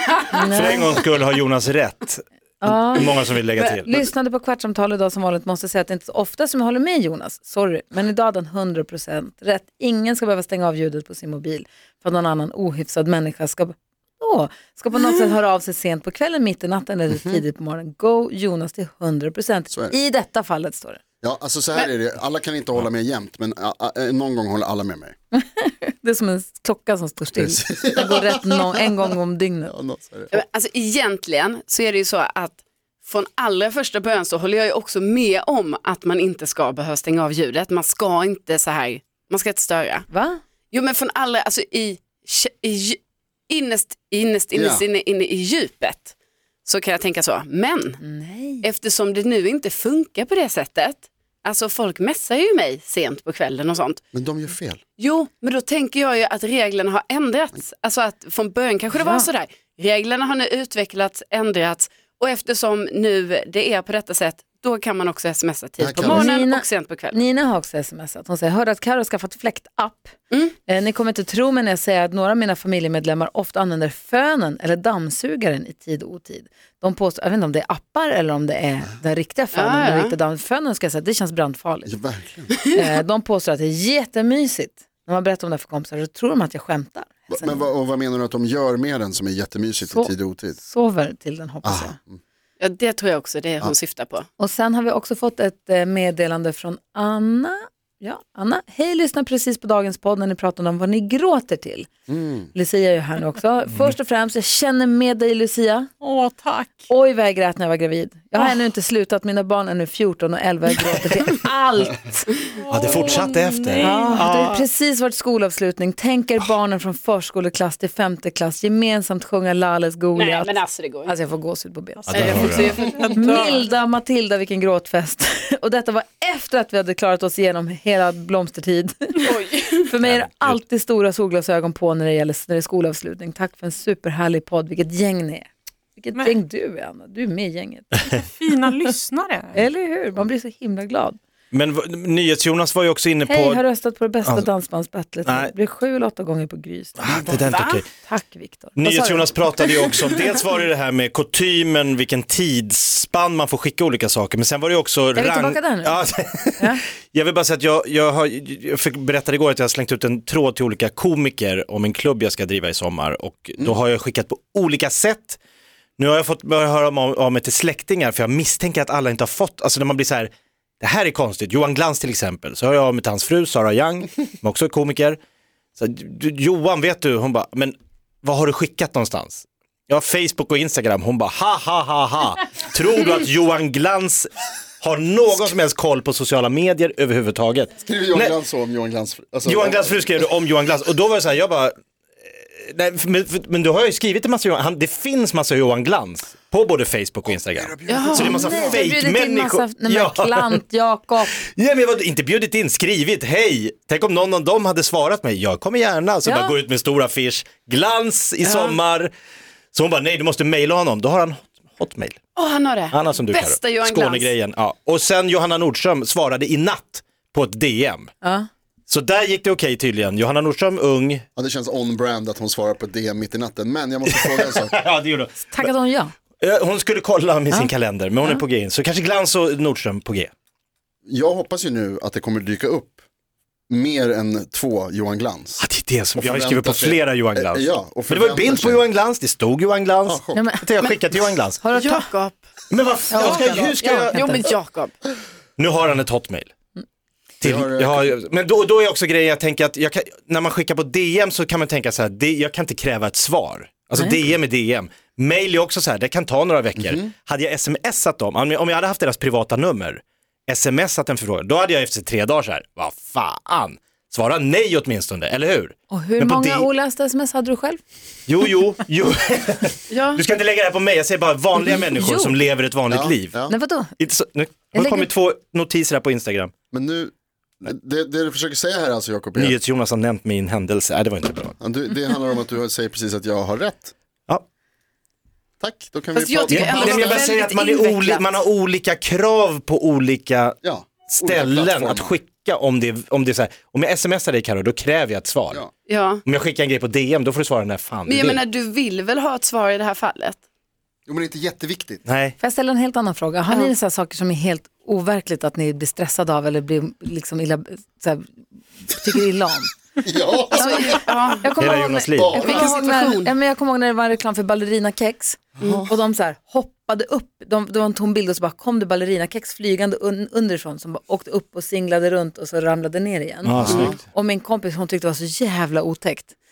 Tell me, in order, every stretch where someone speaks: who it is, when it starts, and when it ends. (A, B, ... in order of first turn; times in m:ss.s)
0:00.3-0:01.0 A
0:00.5-0:04.0 B
0:02.6-0:03.2 A
0:03.8-0:21.0 A
0:17.1-0:17.4 C
0:21.2-0:25.2 C
0:25.3-0:29.8 A
0:27.4-0:29.1 C
0:29.7-0:30.4 C
0:30.3-0:40.1 D
0:40.1-0:40.4 A
0:40.7-0:46.1 D
0:44.5-0:44.8 C
0:46.7-0:48.0 D
0:48.0-0:48.7 A
0:48.6-0:54.0 D
0:54.1-0:54.8 C
0:55.0-1:07.2 D
0:58.9-0:59.3 A
1:05.8-1:06.3 C
1:06.0-1:10.2 A
1:10.7-1:22.0 A
1:19.5-1:20.2 D
1:21.8-1:22.6 C
1:22.7-1:27.7 A
1:27.3-1:30.6 C
1:29.9-1:32.0 A
1:31.6-1:32.2 C
1:32.6-1:34.3 D
1:34.4-1:41.9 A
1:42.1-1:42.5 C
1:42.5-1:45.9 A
1:46.0-1:46.8 E
1:46.9-1:53.2 A
1:52.7-1:54.6 B
1:52.8-1:54.2 E
1:53.8-2:09.2 A
2:00.2-2:01.1 D
2:02.1-2:02.8 B
2:02.1-2:03.3 D
2:02.5-2:03.7 E
2:09.2-2:09.9 D
2:09.9-2:18.8 A
2:10.0-2:10.6 B
2:18.4-2:19.6 E
2:19.5-2:21.2 A
2:21.5-2:23.6 B
2:23.3-2:27.3 A
2:25.3-2:25.5 B
2:27.0-2:27.9 B
2:27.4-2:27.8 D
2:28.0-2:29.4 A
2:28.8-2:45.4 B
2:35.2-2:36.0 A
2:46.0-2:55.2 B
2:55.8-3:04.3 B
3:04.8-3:08.4 B
3:07.8-3:10.1 C
3:09.5-3:11.7 B
3:12.4-3:20.6 B
3:17.3-3:18.8 C
3:17.9-3:18.4 D
3:18.2-3:21.3 A
3:21.3-3:29.1 B
3:28.4-3:28.8 D
3:29.7-3:32.2 B
3:32.4-3:34.3 D
3:32.9-3:38.1 B
3:38.2-3:38.5 A
3:38.9-3:41.2 B
3:41.4-3:44.8 C
3:44.2-3:45.7 B
3:45.5-3:46.1 A
3:46.4-3:50.3 B
3:47.5-3:48.4 A
3:51.1-3:53.0 C
3:53.7-3:55.7 C
3:55.6-4:01.6 B
3:56.2-3:58.8 C
4:00.0-4:00.4 C
4:00.3-4:00.7 A
4:01.6-4:02.1 A
4:01.7-4:02.4 D
4:02.7-4:04.5 B
4:03.1-4:04.5 A
4:03.2-4:04.9 D
4:05.6-4:06.5 B
4:07.4-4:26.7 B
4:07.4-4:08.2 C
4:16.8-4:17.1 C
4:25.9-4:27.8 A
4:28.3-4:36.5 B
4:29.9-4:30.2 D
4:31.9-4:32.4 A
4:32.9-4:33.5 C
4:33.5-4:33.9 A
4:34.7-4:35.1 A
4:36.7-4:39.6 C
4:39.4-4:41.6 B
4:41.6-4:43.9 C
4:45.6-4:47.3 C
4:46.1-4:48.4 D
4:46.5-4:50.6 B
4:50.6-4:52.2 C
4:51.1-4:55.6 B
4:55.9-4:56.2 D
4:56.2-4:58.4 B
4:58.1-5:00.4 D
5:01.1-5:02.0 C
5:02.1-5:02.4 B
5:02.4-5:08.3 A
5:03.5-5:03.7 D
5:08.9-5:09.7 A
5:10.0-5:11.1 C
5:10.5-5:11.5 D
5:10.5-5:26.4 A
5:11.6-5:12.4 B
5:12.2-5:12.6 C
5:12.4-5:13.3 D
5:15.6-5:15.8 D
5:15.6-5:15.9 C
5:23.4-5:24.0 B
5:23.6-5:24.0 C